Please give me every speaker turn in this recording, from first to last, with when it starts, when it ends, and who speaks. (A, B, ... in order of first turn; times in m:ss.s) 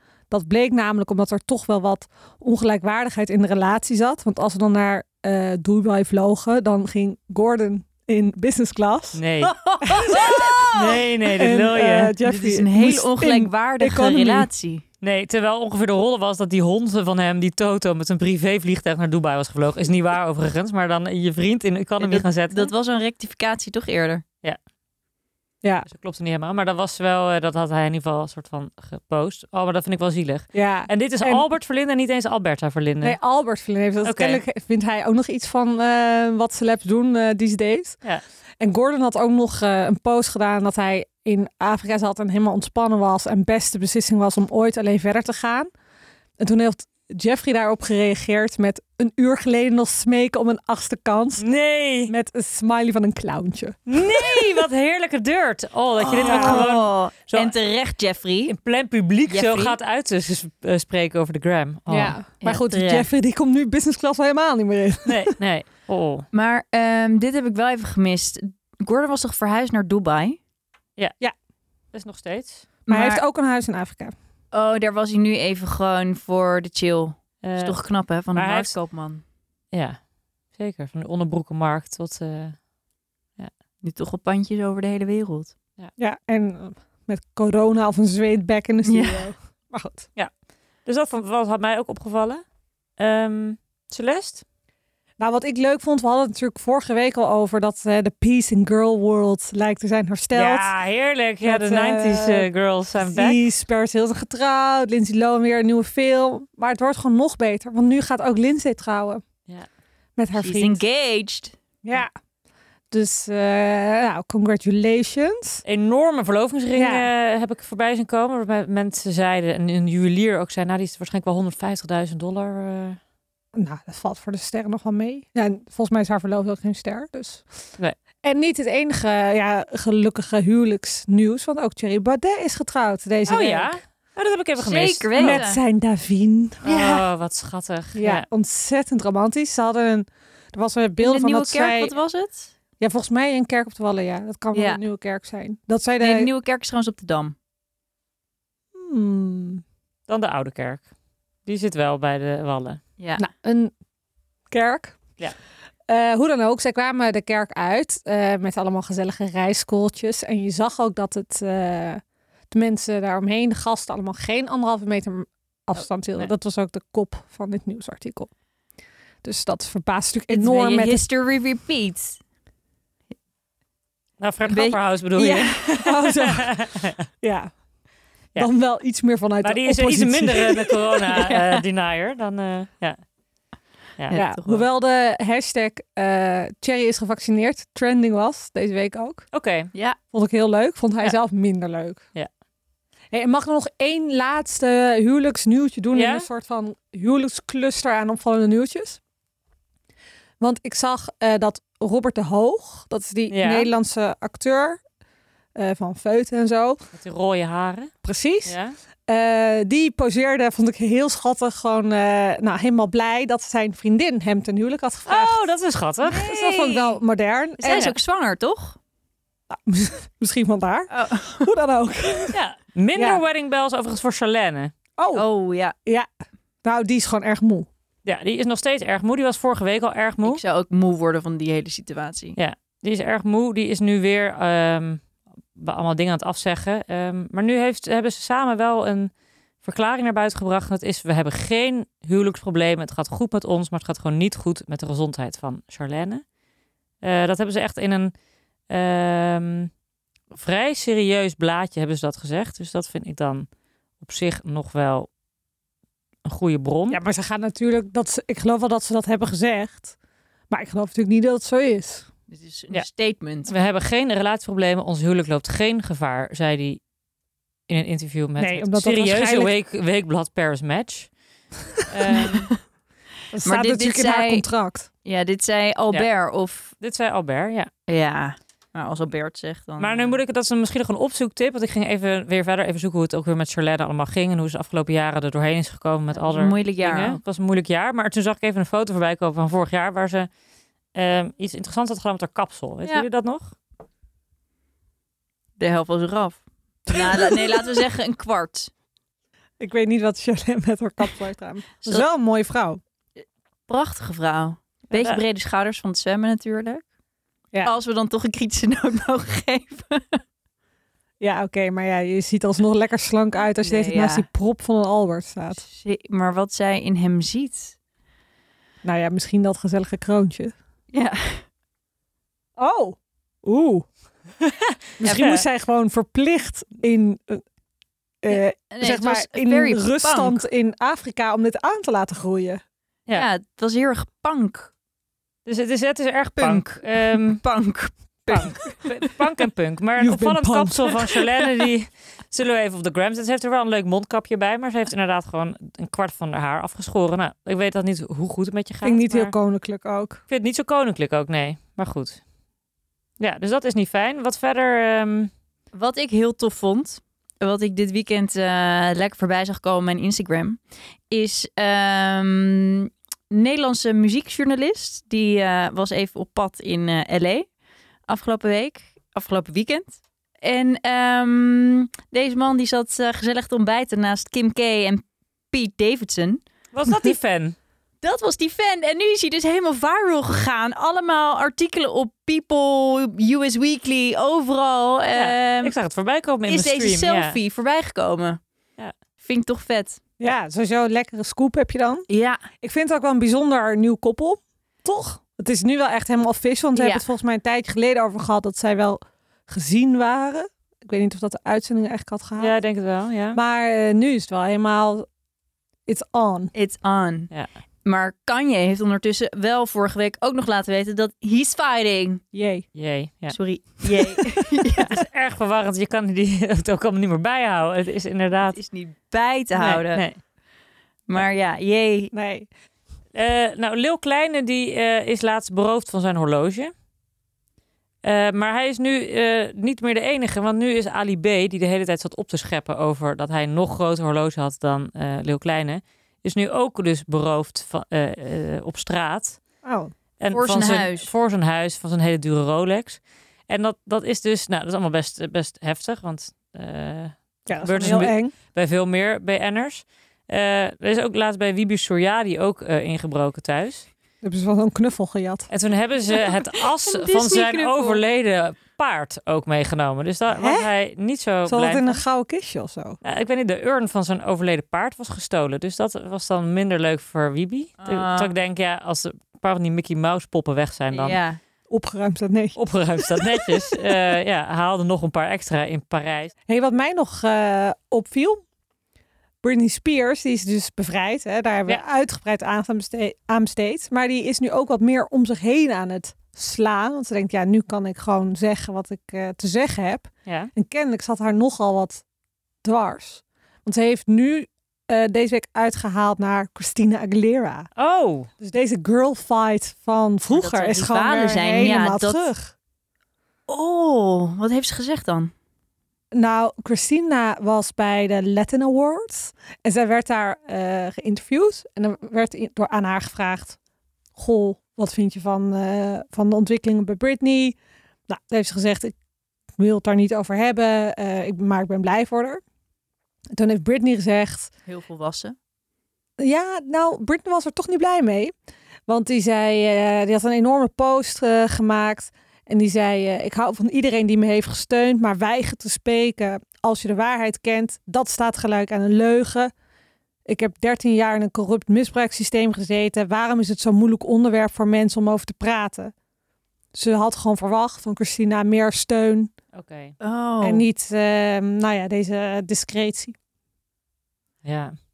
0:00.3-0:09.2 A
0:09.2-0:09.6 B
0:09.4-0:11.0 C
0:09.8-0:10.5 A
0:10.6-0:12.2 B
0:11.2-0:14.5 A
0:12.2-0:14.8 C
0:15.0-0:22.7 B
0:22.0-0:24.2 C
0:25.6-0:25.9 A
0:25.9-0:33.2 B
0:30.5-0:31.4 A
0:33.0-0:38.0 A
0:34.0-0:34.4 B
0:38.6-0:45.7 A
0:46.4-0:51.5 A
0:51.4-0:52.1 B
0:52.1-0:53.8 A
0:53.9-0:57.5 B
0:56.0-0:58.5 C
0:56.2-0:56.7 A
0:58.5-1:02.2 B
0:59.3-0:59.8 C
1:01.9-1:05.4 A
1:02.4-1:03.1 C
1:05.1-1:06.3 B
1:06.3-1:10.4 C
1:11.9-1:12.7 B
1:12.9-1:13.2 C
1:12.9-1:14.2 A
1:14.5-1:19.2 C
1:17.4-1:17.8 B
1:18.3-1:18.7 B
1:19.7-1:20.0 B
1:20.5-1:22.6 B
1:23.8-1:25.5 C
1:26.0-1:30.1 A
1:28.8-1:29.3 C
1:30.8-1:32.4 B
1:33.0-1:34.4 B
1:35.2-1:40.7 A
1:40.3-1:43.4 B
1:41.4-1:49.2 A
1:50.2-1:50.8 A
1:50.4-1:51.6 C
1:51.8-1:52.1 A
1:52.9-1:55.6 A
1:55.6-2:03.0 B
1:56.8-1:57.1 A
2:03.6-2:07.5 A
2:08.2-2:13.8 A
2:13.3-2:15.4 B
2:14.6-2:15.6 C
2:15.2-2:16.6 A
2:16.6-2:18.2 B
2:16.6-2:17.0 C
2:18.0-2:21.9 A
2:21.0-2:22.5 C
2:22.8-2:26.3 A
2:24.5-2:24.8 C
2:26.0-2:27.4 C
2:28.7-2:29.6 A
2:30.1-2:30.8 B
2:31.5-2:32.8 B
2:33.0-2:33.3 C
2:33.2-2:33.7 A
2:34.5-2:35.0 A
2:35.9-2:48.3 A
2:49.2-2:51.0 A
2:50.3-2:52.2 C
2:54.2-2:57.0 B
2:54.5-2:55.9 C
2:55.8-2:56.6 A
2:57.2-2:57.5 A
2:58.4-3:00.8 A
2:59.4-3:03.0 B
3:01.1-3:01.6 C
3:04.0-3:04.3 B
3:04.1-3:04.6 C
3:04.1-3:09.3 A
3:09.3-3:09.7 B
3:10.1-3:12.0 A
3:13.1-3:19.0 A
3:15.9-3:16.3 B
3:20.4-3:24.8 A
3:23.3-3:23.7 B
3:25.6-3:26.8 A
3:27.0-3:27.9 B
3:28.0-3:35.4 A
3:28.4-3:28.8 B
3:35.1-3:36.3 B
3:36.1-3:37.0 C
3:36.1-3:37.9 A
3:37.6-3:38.8 C
3:37.7-3:38.0 B
3:39.5-3:42.4 A
3:40.9-3:41.5 C
3:42.3-3:44.7 B
3:43.0-3:43.2 A
3:45.0-3:45.2 A
3:45.1-3:45.8 C
3:46.6-3:47.7 A
3:48.0-3:50.4 B
3:50.2-3:52.4 C
3:52.4-3:55.0 B
3:55.6-3:59.1 B
3:59.6-4:06.2 B
4:07.0-4:08.1 B
4:08.7-4:09.7 B
4:10.3-4:13.5 B
4:14.0-4:15.1 B
4:16.2-4:17.0 B
4:16.9-4:19.9 A
4:20.5-4:22.1 A
4:22.3-4:23.5 C
4:23.5-4:26.8 B
4:27.7-4:31.1 B
4:28.4-4:29.5 A
4:31.8-4:32.5 B
4:32.1-4:32.6 C
4:33.3-4:34.9 A
4:33.4-4:34.4 C
4:35.0-4:36.7 C
4:36.8-4:37.7 B
4:37.9-4:40.2 C
4:39.8-4:50.3 B
4:46.1-4:47.2 C
4:51.0-4:53.5 B
4:55.6-4:58.7 C
4:56.9-4:57.4 A
4:59.6-5:02.8 A
5:03.7-5:06.8 C
5:04.9-5:05.2 B
5:07.6-5:10.2 C
5:11.2-5:15.6 A
5:13.6-5:14.3 C
5:15.6-5:17.8 C
5:18.8-5:20.6 A
5:20.9-5:21.5 C
5:22.6-5:23.9 A
5:24.4-5:25.4 B
5:25.0-5:27.4 A
5:28.2-5:32.6 A
5:28.3-5:30.4 C
5:33.1-5:34.7 C
5:35.5-5:37.4 B
5:36.4-5:39.0 C
5:38.3-5:49.3 B
5:40.0-5:41.0 A
5:48.8-5:50.2 A
5:50.3-5:52.2 B
5:53.2-5:55.3 B
5:55.7-6:07.5 C
6:08.1-6:16.4 C
6:16.7-6:17.6 B
6:18.0-6:25.7 C
6:25.2-6:27.4 B
6:26.5-6:28.4 C
6:29.2-6:30.0 C
6:30.2-6:32.1 A
6:32.1-6:32.4 C
6:32.6-6:42.6 A
6:36.8-6:37.0 C
6:42.4-6:43.4 B
6:43.3-6:45.1 A
6:45.9-6:46.5 A
6:46.5-6:47.3 C
6:47.8-6:52.2 C
6:52.3-6:52.7 A
6:52.8-6:53.4 B
6:53.3-6:55.0 C
6:54.8-6:58.6 B
6:58.5-7:00.0 C
6:59.6-7:00.2 B
7:01.1-7:02.1 C
7:02.1-7:02.5 A
7:03.1-7:06.7 B
7:08.0-7:19.4 B
7:19.6-7:19.9 A
7:20.2-7:33.9 B
7:20.3-7:21.1 C
7:27.5-7:28.3 A
7:34.2-7:35.5 A
7:35.5-7:42.0 B
7:36.8-7:38.0 C
7:40.3-7:40.7 A
7:41.5-7:43.0 A
7:43.0-7:51.2 B
7:47.8-7:48.3 C
7:50.9-7:51.4 C
7:51.7-7:53.8 A
7:52.6-7:56.3 B
7:56.5-7:58.4 A
7:59.4-8:12.0 A
8:10.3-8:10.5 B
8:12.6-8:17.7 A
8:17.8-8:18.3 B
8:18.4-8:22.5 A
8:20.3-8:22.2 C
8:23.5-8:25.3 C
8:26.1-8:33.6 A
8:34.2-8:37.6 A
8:38.1-8:39.0 A
8:39.6-8:42.4 A
8:43.3-8:44.5 A
8:44.7-8:45.4 C
8:46.2-8:48.3 A
8:48.9-8:59.5 A
9:00.3-9:05.9 A
9:06.7-9:09.3 A
9:09.5-9:10.0 B
9:10.0-9:10.7 C
9:10.4-9:13.2 A
9:14.4-9:14.8 B